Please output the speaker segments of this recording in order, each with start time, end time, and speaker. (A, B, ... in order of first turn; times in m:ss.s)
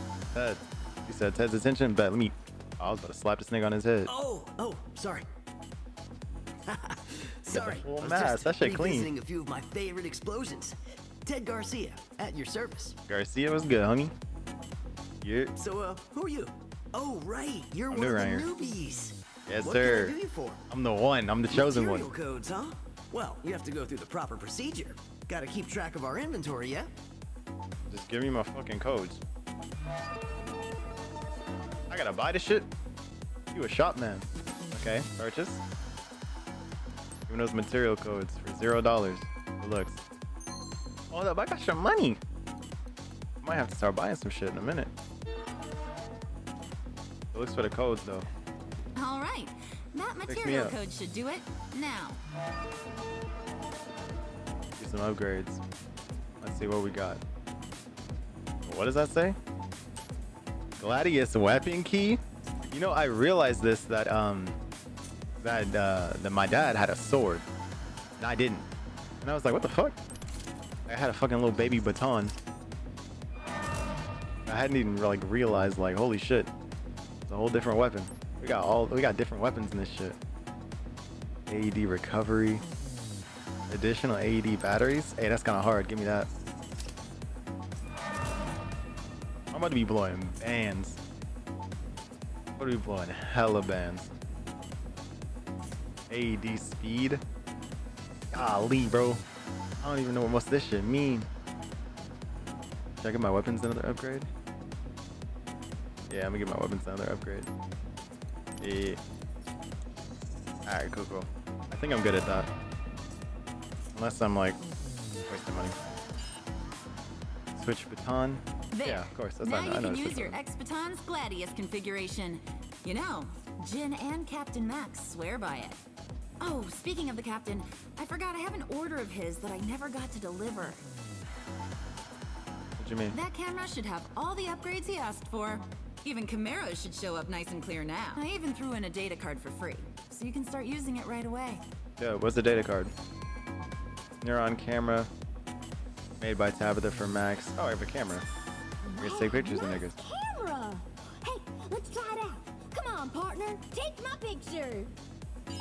0:00.3-0:04.1 A
0:04.1-0:05.3 B
0:06.7-0:13.0 B
0:07.5-0:09.1 A
0:13.1-0:14.1 A
0:15.2-0:15.5 A
0:15.6-0:20.6 B
0:17.9-0:18.5 A
0:19.5-0:20.2 A
0:20.7-0:22.1 A
0:21.5-0:26.9 B
0:27.9-0:29.2 A
0:31.9-0:32.7 A
0:33.5-0:35.6 A
0:37.3-0:40.0 A
0:41.1-0:42.2 A
0:43.4-0:44.9 A
0:47.3-0:48.3 A
0:49.0-0:52.2 C
0:50.3-0:50.8 A
0:54.8-0:55.6 A
0:56.4-0:57.2 A
0:58.7-0:59.4 A
1:00.8-1:02.2 A
1:02.7-1:04.6 A
1:05.4-1:07.4 A
1:08.2-1:08.7 A
1:09.2-1:10.0 A
1:10.9-1:12.4 A
1:14.5-1:16.5 A
1:17.3-1:20.2 A
1:21.5-1:22.6 A
1:23.7-1:26.3 A
1:29.5-1:31.0 A
1:32.6-1:34.1 A
1:36.1-1:37.2 A
1:38.3-1:39.2 A
1:39.8-1:41.3 A
1:43.0-1:44.3 A
1:46.1-1:47.5 A
1:48.6-1:49.0 A
1:50.7-1:52.5 A
1:54.0-1:54.6 A
1:55.3-1:55.8 A
1:57.6-2:00.4 A
1:58.7-2:05.8 C
2:06.4-2:10.8 C
2:12.8-2:13.2 A
2:13.1-2:21.6 C
2:22.0-2:22.9 A
2:24.2-2:25.1 A
2:26.2-2:28.2 A
2:28.8-2:34.9 D
2:29.0-2:30.0 A